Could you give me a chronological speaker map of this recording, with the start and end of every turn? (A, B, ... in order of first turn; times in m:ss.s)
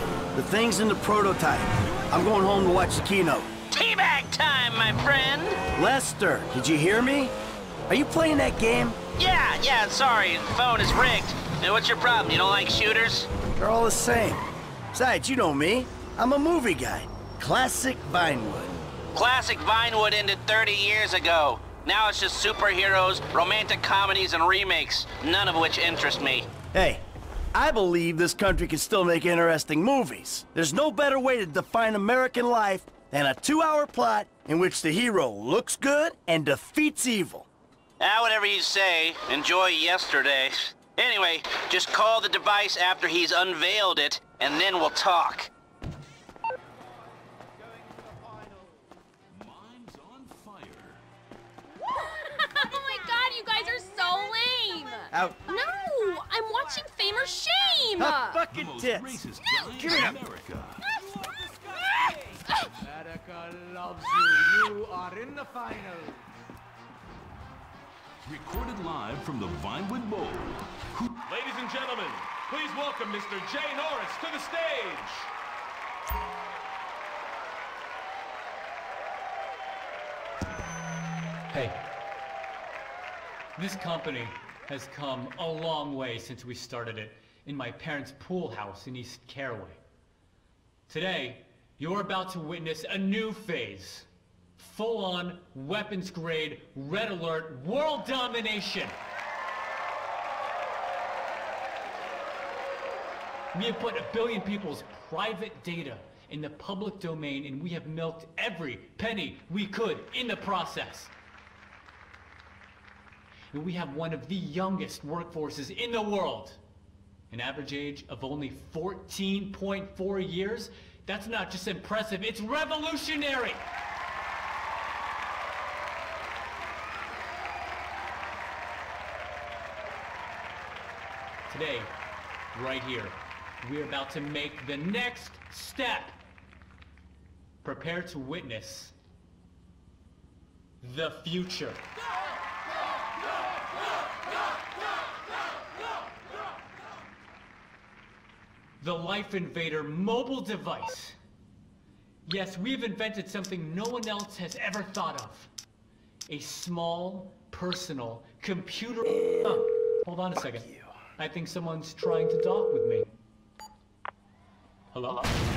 0:00.3-0:03.5 A
0:03.7-0:05.6 B
0:05.7-0:07.3 A
0:07.9-0:09.0 A
0:09.1-0:13.3 B
0:13.6-0:18.8 A
0:19.1-0:26.5 B
0:26.7-0:27.0 A
0:27.5-0:37.5 A
0:38.0-0:45.5 B
0:49.3-0:51.0 C
0:53.4-0:55.0 D
0:55.1-0:55.4 A
0:55.9-0:56.6 D
0:57.2-0:58.3 D
0:58.0-0:59.2 A
0:58.5-1:00.8 C
0:59.8-1:00.2 A
1:03.0-1:06.1 E
1:08.2-1:11.2 C
1:11.2-1:15.3 F
1:21.5-1:21.8 G
1:23.6-1:29.8 G
1:30.9-1:34.1 G
1:34.6-1:39.0 G
1:43.5-1:51.1 G
1:53.5-1:56.6 G
1:57.3-2:03.6 G
2:11.5-2:12.0 G
2:12.5-2:16.2 G
2:17.6-2:18.9 G
2:20.8-2:21.8 G
2:28.8-2:31.2 G
2:32.2-2:35.5 G
2:36.3-2:43.1 G
2:44.9-2:45.3 G